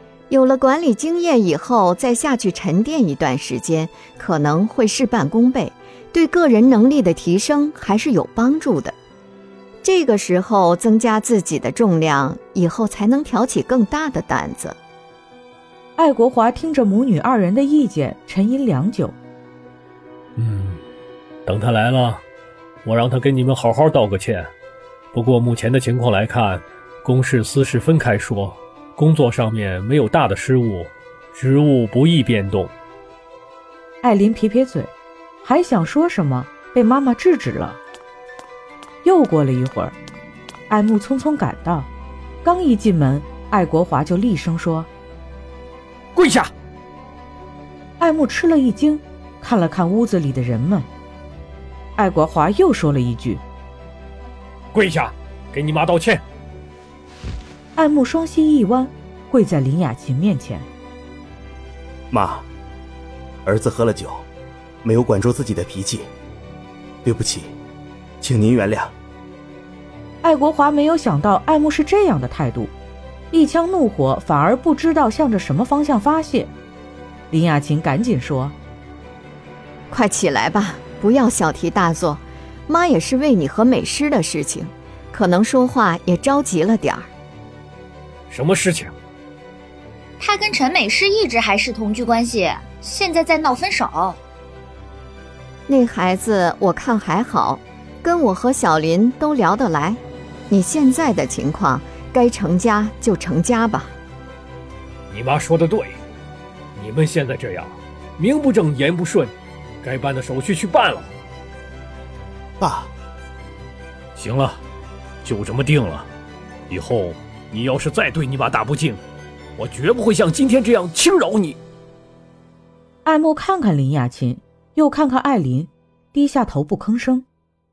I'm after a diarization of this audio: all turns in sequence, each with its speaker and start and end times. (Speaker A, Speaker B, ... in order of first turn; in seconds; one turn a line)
Speaker A: 0.3-8.9
Speaker A: 9.8-14.8
Speaker B: 16.0-19.2
Speaker C: 20.4-20.8
Speaker C: 21.4-22.2
Speaker C: 22.8-24.5
Speaker C: 25.1-32.7
Speaker B: 34.0-34.9
Speaker B: 35.4-37.8
Speaker B: 39.0-39.9
Speaker B: 40.7-41.9
Speaker B: 42.4-44.9
Speaker C: 46.1-46.5
Speaker B: 48.0-50.9
Speaker B: 52.0-53.4
Speaker C: 54.7-56.2
Speaker B: 57.8-60.7
Speaker D: 62.1-62.5
Speaker D: 63.4-64.2
Speaker D: 64.8-66.1
Speaker D: 67.0-67.5
Speaker D: 68.2-68.9
Speaker B: 70.2-72.7
Speaker B: 73.3-76.5
Speaker B: 77.3-78.5
Speaker A: 79.9-87.1
Speaker C: 88.3-88.9
Speaker E: 90.2-94.2
Speaker A: 95.7-103.9
Speaker C: 105.1-106.0
Speaker C: 106.8-111.1
Speaker D: 112.6-112.9
Speaker C: 114.2-114.6
Speaker C: 115.2-116.1
Speaker C: 116.7-119.0
Speaker C: 119.6-121.6
Speaker B: 123.0-127.2